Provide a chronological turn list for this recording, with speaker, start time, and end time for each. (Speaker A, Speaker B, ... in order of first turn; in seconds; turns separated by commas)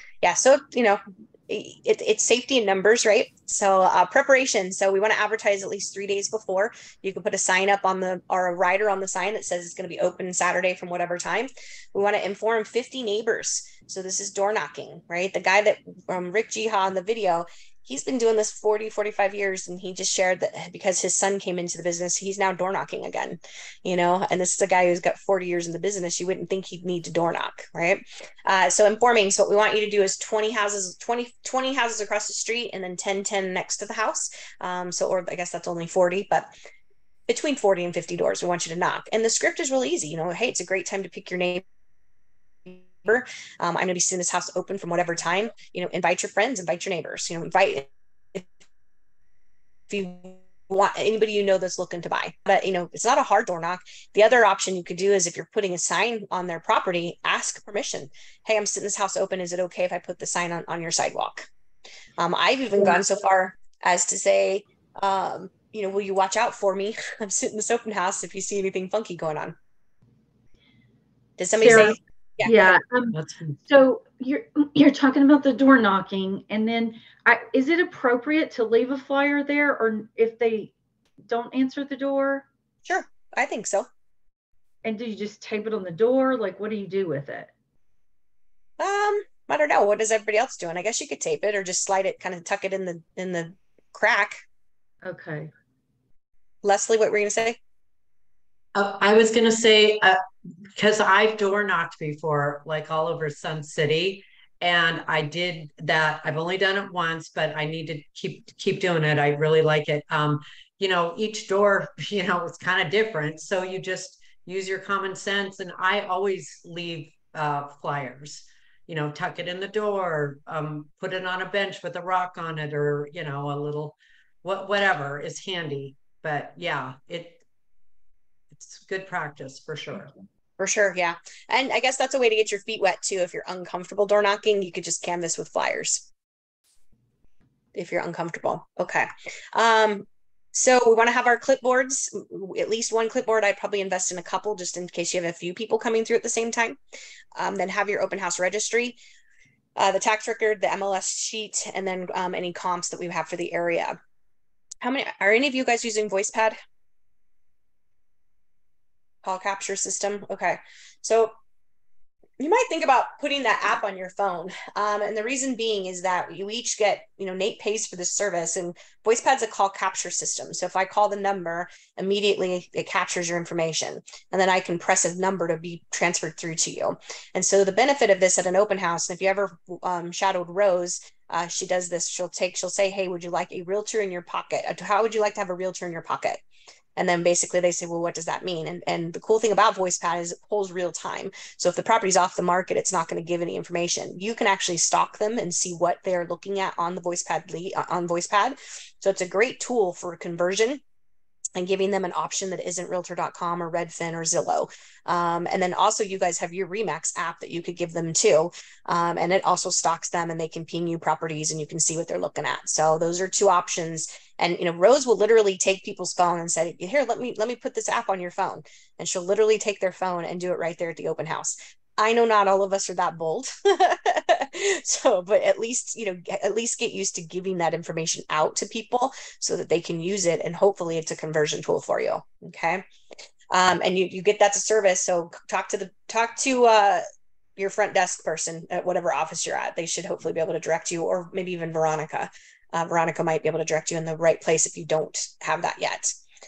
Speaker A: 0.2-36.5, Speaker A: 37.3-41.6, Speaker A: 42.6-48.5, Speaker A: 49.9-61.5, Speaker A: 62.2-69.5, Speaker A: 71.4-72.8, Speaker B: 71.6-80.7, Speaker C: 73.1-73.6, Speaker B: 81.2-82.5, Speaker A: 82.8-83.9, Speaker B: 84.8-87.5, Speaker A: 88.8-94.4, Speaker B: 95.0-95.5, Speaker A: 96.6-97.6, Speaker C: 98.7-100.2, Speaker C: 100.8-127.4, Speaker C: 128.5-130.1, Speaker A: 130.6-136.0, Speaker A: 137.7-146.8, Speaker A: 147.3-149.0, Speaker A: 149.8-154.0, Speaker A: 154.8-156.6, Speaker A: 159.2-161.3, Speaker A: 162.4-186.4, Speaker A: 186.9-200.8, Speaker A: 201.6-232.8, Speaker A: 233.5-237.0, Speaker A: 237.6-246.1